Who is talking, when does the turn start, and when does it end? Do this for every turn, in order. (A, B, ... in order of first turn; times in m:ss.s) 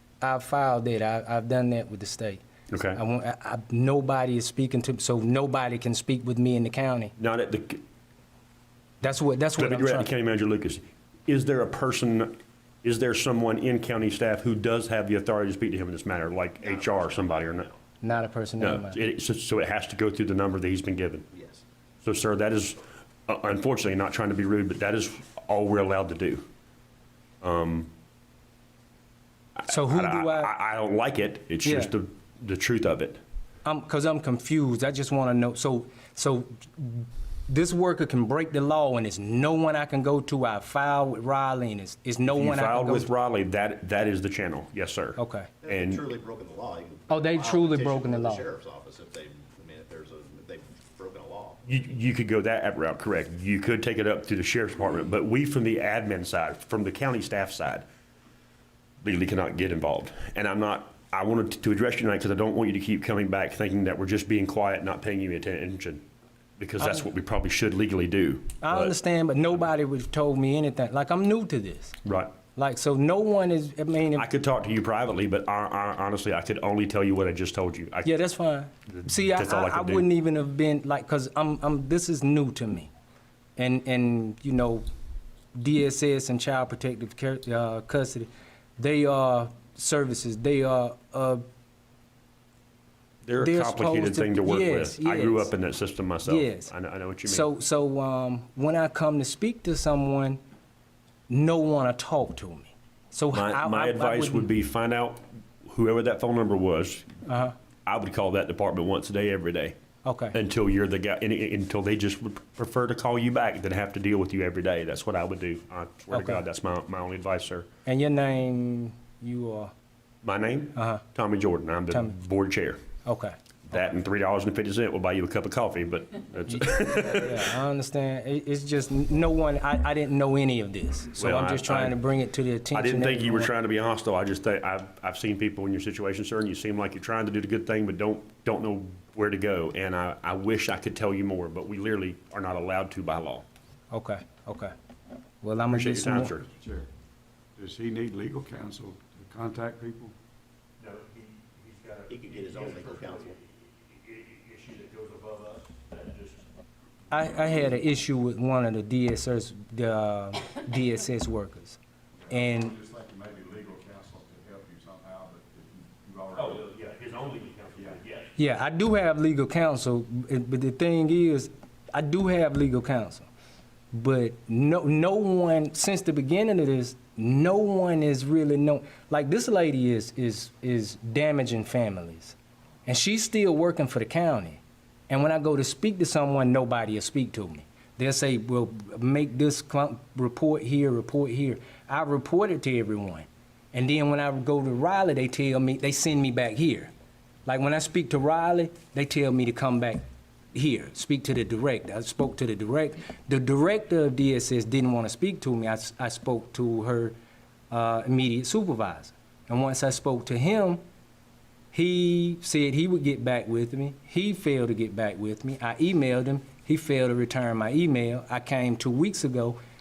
0:00.2-0:02.4 A
0:02.7-0:03.0 B
0:02.9-0:07.1 A
0:07.2-0:07.8 B
0:09.0-0:10.1 A
0:09.6-0:17.7 B
0:16.6-0:17.6 C
0:18.0-0:19.0 A
0:18.6-0:21.3 B
0:21.3-0:21.6 C
0:22.0-0:26.4 B
0:27.4-0:27.9 B
0:29.6-0:33.2 B
0:29.7-0:30.5 A
0:31.6-0:31.9 A
0:33.6-0:43.1 A
0:42.3-0:46.0 B
0:45.2-0:45.5 A
0:45.6-0:51.6 C
0:47.1-0:48.4 A
0:51.6-0:57.8 B
0:59.0-1:06.0 B
1:06.6-1:09.0 B
1:08.6-1:12.0 A
1:12.0-1:12.4 B
1:12.6-1:14.2 A
1:14.1-1:18.1 B
1:18.0-1:22.9 A
1:18.9-1:20.1 B
1:23.6-1:24.8 A
1:25.5-1:31.4 A
1:33.2-1:37.5 B
1:33.4-1:35.5 A
1:36.2-1:36.7 A
1:37.2-1:40.4 A
1:41.3-1:44.5 A
1:43.3-1:47.1 B
1:47.2-1:47.6 A
1:47.9-1:49.8 B
1:50.0-1:50.4 A
1:50.3-1:57.7 B
1:56.1-1:56.4 A
1:57.9-1:59.7 A
2:00.2-2:02.8 B
2:00.8-2:01.0 A
2:03.0-2:03.4 A
2:03.7-2:07.5 B
2:06.5-2:13.5 A
2:11.2-2:12.0 B
2:12.7-2:23.5 B
2:23.9-2:24.7 A
2:25.4-2:26.4 A
2:25.7-2:26.6 B
2:27.6-2:30.1 D
2:30.8-2:36.4 B
2:32.1-2:33.4 C
2:37.1-2:41.8 A
2:42.3-2:42.8 A
2:42.4-2:46.6 D
2:46.3-2:48.4 B
2:48.4-2:53.3 A
2:53.9-3:16.9 A
3:17.5-3:20.0 A
3:20.5-3:27.2 A
3:27.7-3:30.8 A
3:31.7-3:39.6 A